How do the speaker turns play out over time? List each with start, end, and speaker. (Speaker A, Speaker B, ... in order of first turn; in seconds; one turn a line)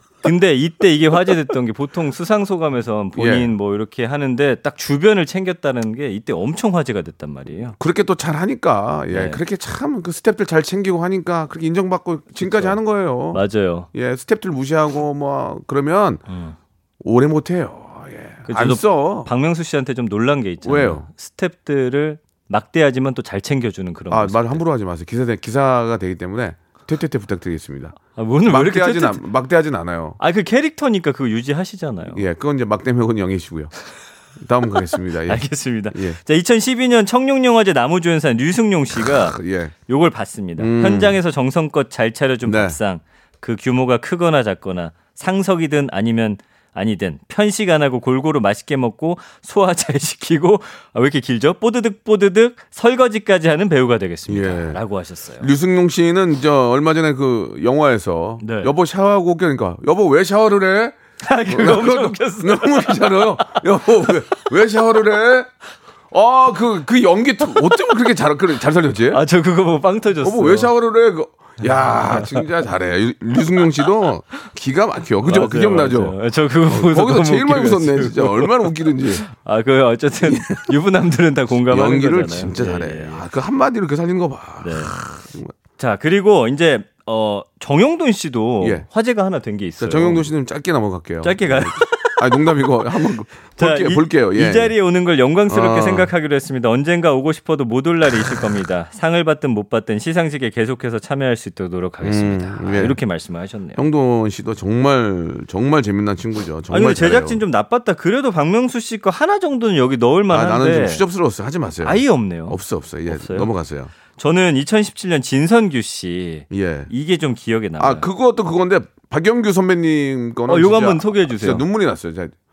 Speaker A: 0.2-7.8
Speaker B: 3.1-3.5
Speaker B: 7.8-13.4
Speaker A: 9.1-9.4
Speaker A: 12.4-12.8
Speaker A: 13.3-13.9
Speaker B: 13.9-16.2
Speaker A: 16.3-16.6
Speaker B: 17.0-19.3
Speaker A: 18.4-24.6
Speaker B: 20.6-21.1
Speaker B: 24.1-30.2
Speaker A: 28.1-29.2
Speaker A: 30.2-32.2
Speaker B: 32.1-33.7
Speaker B: 34.4-36.2
Speaker A: 35.2-39.4
Speaker B: 39.0-39.7
Speaker A: 39.9-55.5
Speaker B: 40.6-41.2
Speaker B: 42.4-42.8
Speaker B: 54.3-54.8
Speaker B: 55.4-61.0
Speaker A: 58.4-58.7
Speaker A: 61.2-64.3
Speaker B: 61.5-65.5
Speaker B: 66.1-69.2
Speaker A: 69.1-70.7
Speaker B: 70.2-79.2
Speaker A: 71.8-72.5
Speaker A: 75.2-83.2
Speaker B: 80.2-80.8
Speaker B: 81.6-85.5
Speaker A: 84.6-84.9
Speaker A: 85.8-90.3
Speaker B: 88.6-88.8
Speaker B: 89.8-94.7
Speaker A: 91.2-92.7
Speaker A: 93.6-103.8
Speaker B: 95.5-96.1
Speaker B: 102.0-103.0
Speaker B: 103.8-107.4
Speaker A: 106.7-111.0
Speaker B: 110.3-113.9
Speaker A: 111.8-113.5
Speaker A: 114.2-118.1
Speaker B: 116.5-116.9
Speaker B: 117.8-122.3
Speaker A: 120.5-121.6